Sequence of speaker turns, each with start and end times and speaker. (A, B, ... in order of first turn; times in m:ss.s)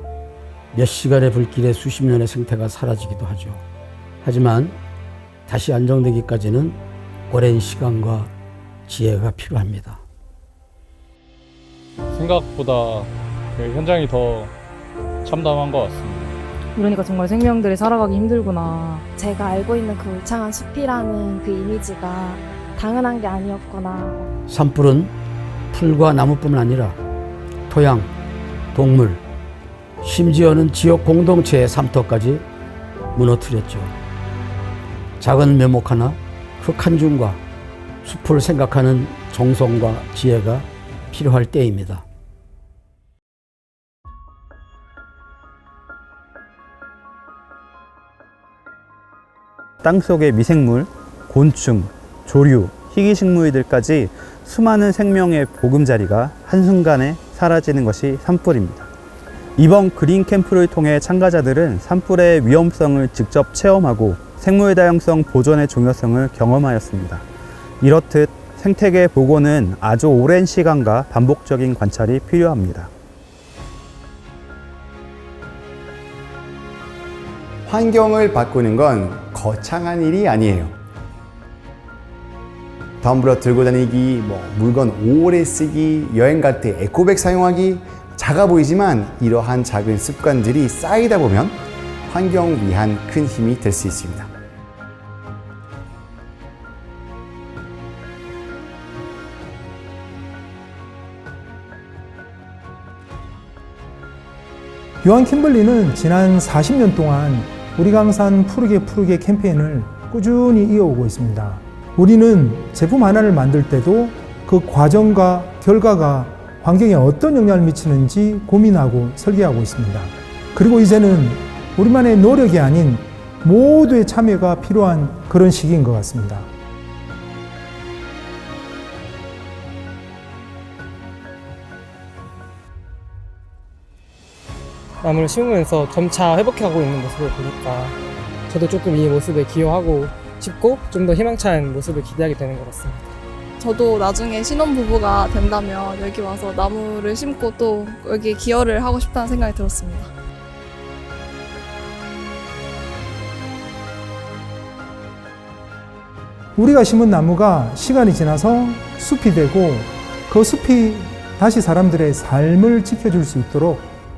0:00.7-0:03.6 A
0:04.2-0:04.8 A
0:05.5-0:08.3 A
0:08.9-0:10.0 A
0:12.1-0:14.5 B
0:15.2-0:16.3 B
0:16.8-0:19.0 C
0:19.2-0:24.3 D
0:24.5-0:25.1 A
0:25.7-0:27.0 A
0:27.7-0:28.1 A
0:28.7-0:29.2 A
0:30.0-0:32.5 A
0:33.1-0:34.0 A
0:35.2-0:37.4 A
0:38.0-0:42.0 A
0:49.8-0:58.9 E
0:59.6-1:07.2 E
1:07.8-1:12.9 E
1:17.7-1:20.8 F
1:23.0-1:34.3 F
1:45.0-2:06.5 G
2:15.0-2:18.0 H
2:18.5-2:23.1 H
2:23.6-2:30.1 I
2:36.6-2:43.9 G